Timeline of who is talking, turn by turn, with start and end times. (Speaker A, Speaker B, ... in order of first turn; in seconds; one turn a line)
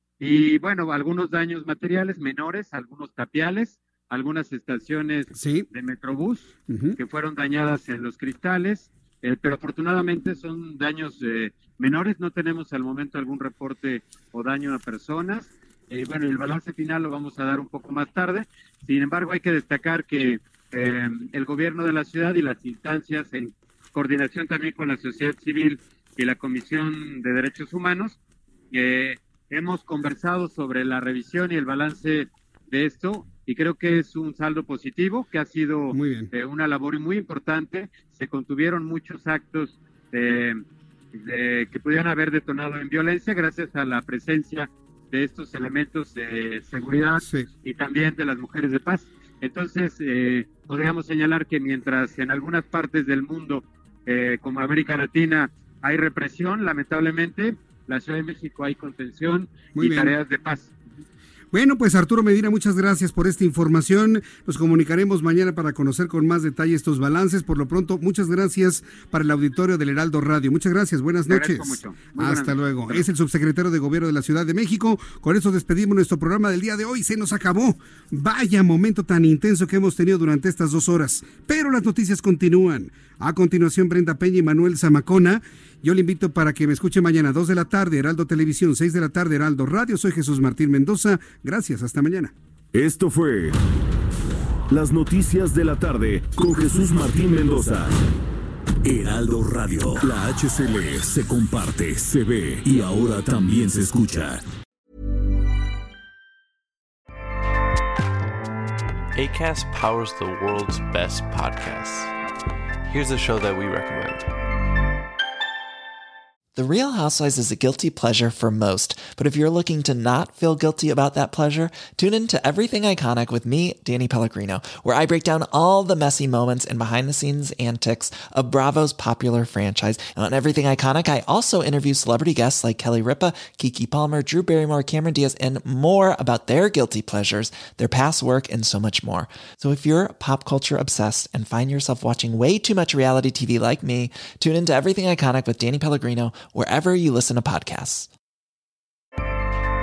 Speaker A: 0.2-28.2
Speaker B: 5.3-5.7
Speaker B: 6.7-7.0
Speaker A: 28.7-40.6
Speaker B: 35.9-36.3
Speaker A: 41.1-60.7
Speaker B: 59.8-60.1
Speaker B: 61.5-92.3
Speaker A: 71.3-73.0
Speaker C: 92.7-93.6
Speaker C: 94.7-97.9
Speaker C: 98.8-104.4
Speaker D: 109.1-112.1
Speaker D: 112.9-114.3
Speaker E: 116.5-148.1